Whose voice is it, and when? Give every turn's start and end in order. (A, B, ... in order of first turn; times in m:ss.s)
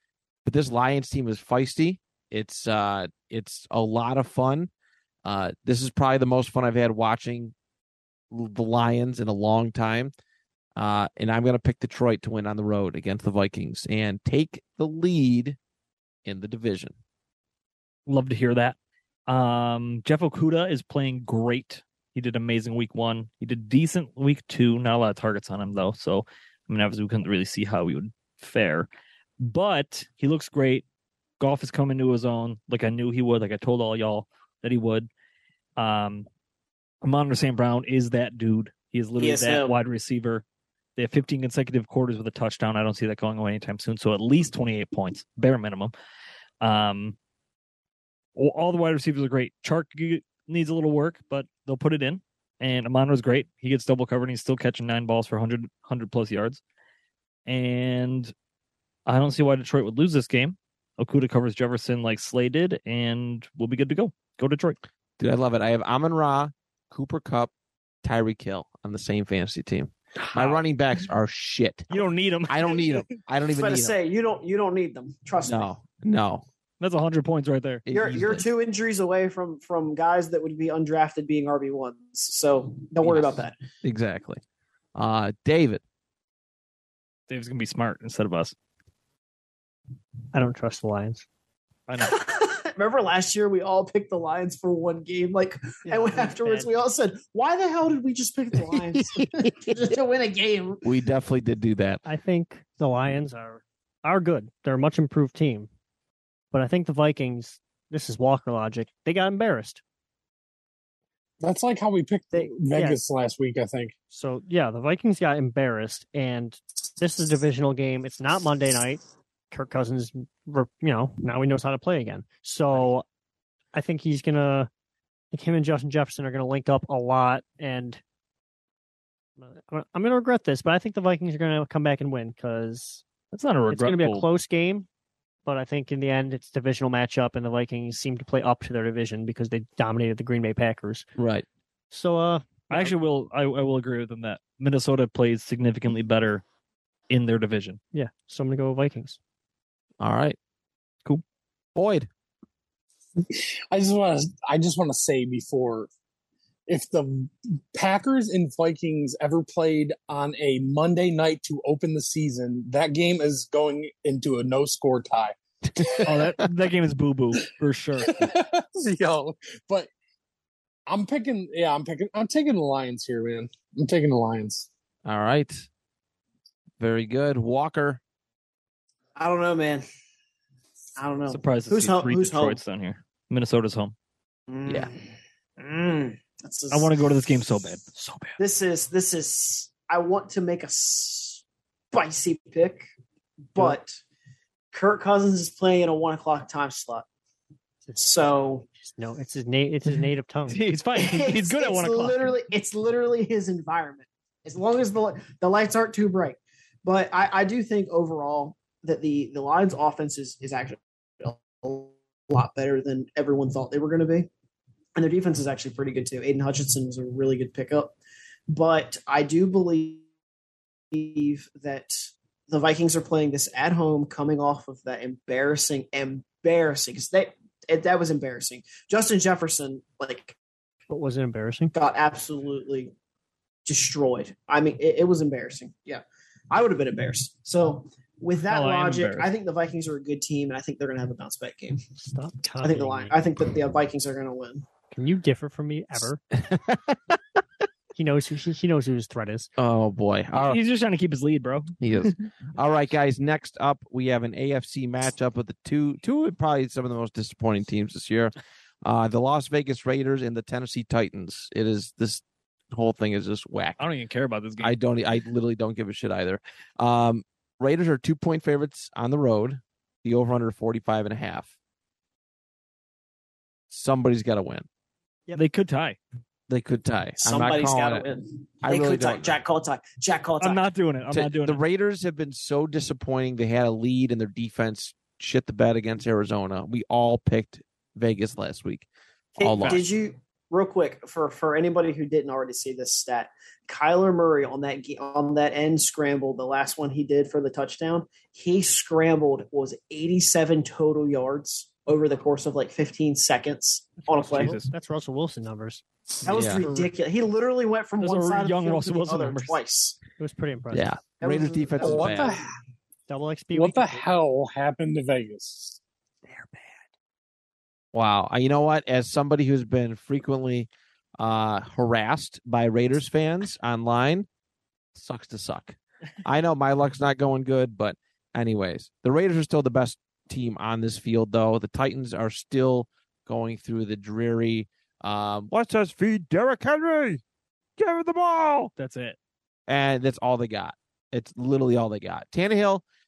0:00.4-0:04.7 A
0:05.2-0:07.5 A
0:08.3-0:10.1 A
0:10.8-0:15.6 A
0:16.2-0:16.9 A
0:18.0-0:18.8 B
0:19.3-0:28.9 B
0:29.4-0:30.8 B
0:31.4-0:35.1 B
0:35.8-0:36.3 B
0:37.0-0:40.4 B
0:39.2-0:39.7 C
0:41.0-0:45.9 B
0:46.6-0:47.2 B
0:48.4-0:56.6 B
0:57.4-0:58.3 B
0:59.0-1:04.8 B
1:05.2-1:07.5 A
1:08.0-1:11.9 A
1:10.2-1:10.6 B
1:11.9-1:13.0 B
1:12.5-1:14.0 A
1:13.6-1:15.7 C
1:15.4-1:16.4 A
1:16.8-1:17.8 B
1:17.8-1:18.4 A
1:17.9-1:23.5 C
1:23.0-1:24.4 A
1:24.9-1:25.8 A
1:27.3-1:28.5 B
1:30.3-1:31.2 D
1:31.9-1:32.2 B
1:32.0-1:40.8 C
1:35.8-1:36.7 D
1:38.7-1:39.5 A
1:40.8-1:42.0 A
1:42.0-1:45.7 D
1:46.5-1:49.8 D
1:51.4-1:53.9 E
1:52.3-1:53.0 D
1:54.1-2:03.0 D
2:03.7-2:04.7 D
2:05.3-2:08.0 D
2:09.4-2:13.0 D
2:13.3-2:14.3 B
2:13.7-2:14.9 D
2:15.4-2:21.1 D
2:21.2-2:21.4 A
2:21.9-2:22.9 D
2:22.7-2:26.4 B
2:27.1-2:27.8 B
2:27.9-2:29.2 D
2:30.0-2:30.4 A
2:31.7-2:32.1 A
2:33.2-2:35.9 E
2:36.7-2:46.4 E
2:46.0-2:48.2 B
2:48.0-2:49.9 E
2:50.9-2:54.7 E
2:55.0-2:55.6 A
2:56.8-2:58.0 A
2:59.2-2:59.8 C
3:01.0-3:02.6 C
3:01.3-3:03.9 B
3:04.5-3:07.0 C
3:04.6-3:04.9 A
3:06.7-3:08.4 B
3:08.4-3:12.9 C
3:13.5-3:14.0 C
3:14.7-3:17.0 C
3:18.0-3:18.6 C
3:18.8-3:20.6 D
3:20.5-3:22.4 B
3:21.0-3:34.3 C
3:35.0-3:38.0 C
3:38.5-3:40.0 C
3:40.9-3:50.4 C
3:50.9-3:51.7 D
3:51.7-3:52.9 C
3:53.6-4:01.8 C
3:58.5-3:59.3 B
4:02.0-4:03.1 D
4:02.6-4:04.6 C
4:04.9-4:06.2 D
4:06.4-4:06.9 A
4:07.9-4:09.5 D
4:09.6-4:10.6 A
4:10.3-4:12.3 B
4:11.8-4:23.8 A
4:23.8-4:24.7 B
4:24.6-4:31.5 A
4:33.7-4:34.6 A
4:35.3-4:36.0 B
4:36.5-4:38.1 A
4:37.2-4:40.6 C
4:38.6-4:39.4 A
4:40.4-4:41.6 B
4:41.1-4:49.8 A
4:49.4-5:04.6 C
4:49.6-4:49.8 B
5:04.1-5:04.7 B
5:04.3-5:06.9 D
5:06.2-5:10.0 C
5:06.3-5:06.6 A
5:08.0-5:09.6 B
5:10.2-5:10.9 D
5:10.7-5:12.4 A
5:11.2-5:12.4 C
5:11.8-5:12.5 E
5:13.1-5:14.0 D
5:13.5-5:15.8 E
5:16.2-5:16.8 D
5:17.9-5:20.7 A
5:21.2-5:24.3 A
5:24.9-5:37.2 A
5:37.8-5:38.7 A
5:38.8-5:39.2 B
5:39.7-5:42.8 A